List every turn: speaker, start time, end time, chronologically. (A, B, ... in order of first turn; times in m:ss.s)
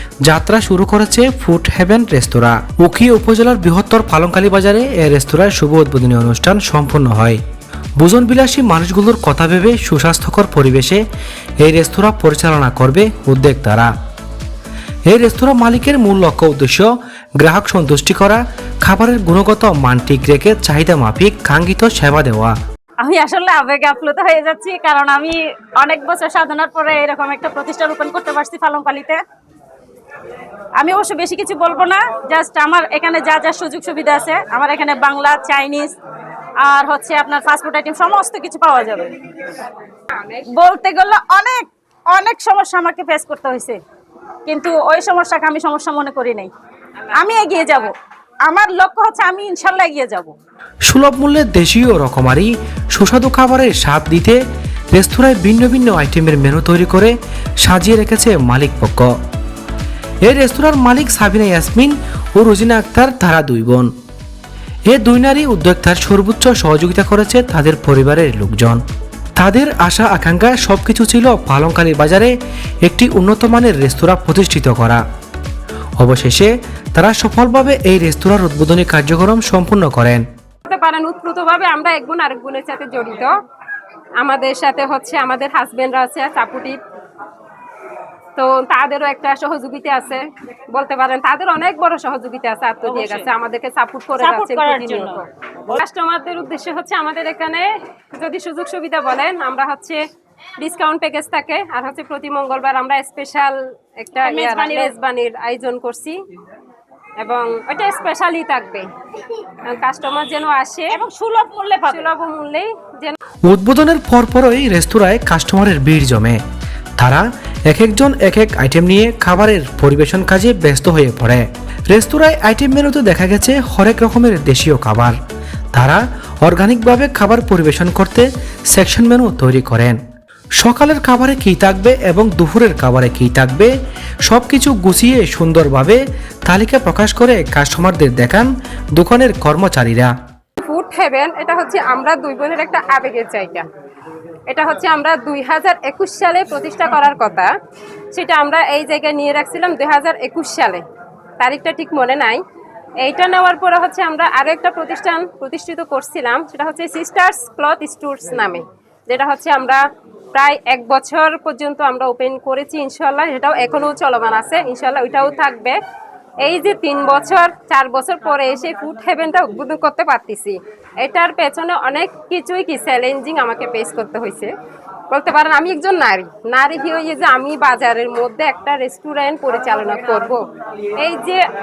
0:00.2-0:07.4 A
0:08.0-0:11.0 A
0:11.6-0:13.9 A
0:15.1-0:22.6 A
0:23.0-0:29.2 B
0:30.8-0:36.0 B
0:36.6-0:39.2 B
0:40.1-0:40.5 C
0:40.5-0:43.8 B
0:44.5-0:46.5 B
0:47.0-0:47.9 C
0:47.2-0:47.9 B
0:48.5-0:50.3 B
0:50.9-0:54.4 A
0:54.9-0:59.1 A
1:00.2-1:03.9 A
1:04.9-1:08.8 A
1:09.4-1:12.3 A
1:12.8-1:15.0 A
1:16.0-1:20.2 A
1:20.7-1:23.3 C
1:24.2-1:26.8 C
1:28.4-1:40.0 C
1:32.9-1:33.3 B
1:34.2-1:35.8 B
1:40.6-1:46.2 C
1:44.2-1:44.9 B
1:47.2-1:48.9 C
1:49.6-1:50.9 C
1:50.9-1:52.0 B
1:51.9-1:53.2 C
1:53.5-1:56.4 A
1:57.0-2:05.2 A
2:05.7-2:10.0 A
2:10.6-2:13.7 A
2:14.3-2:20.1 A
2:20.6-2:23.7 C
2:24.5-2:27.5 C
2:28.1-2:30.8 C
2:31.4-2:32.4 C
2:33.0-2:39.8 C
2:40.3-2:45.8 C
2:46.4-2:54.5 C
2:55.1-3:00.4 C
3:01.0-3:01.4 C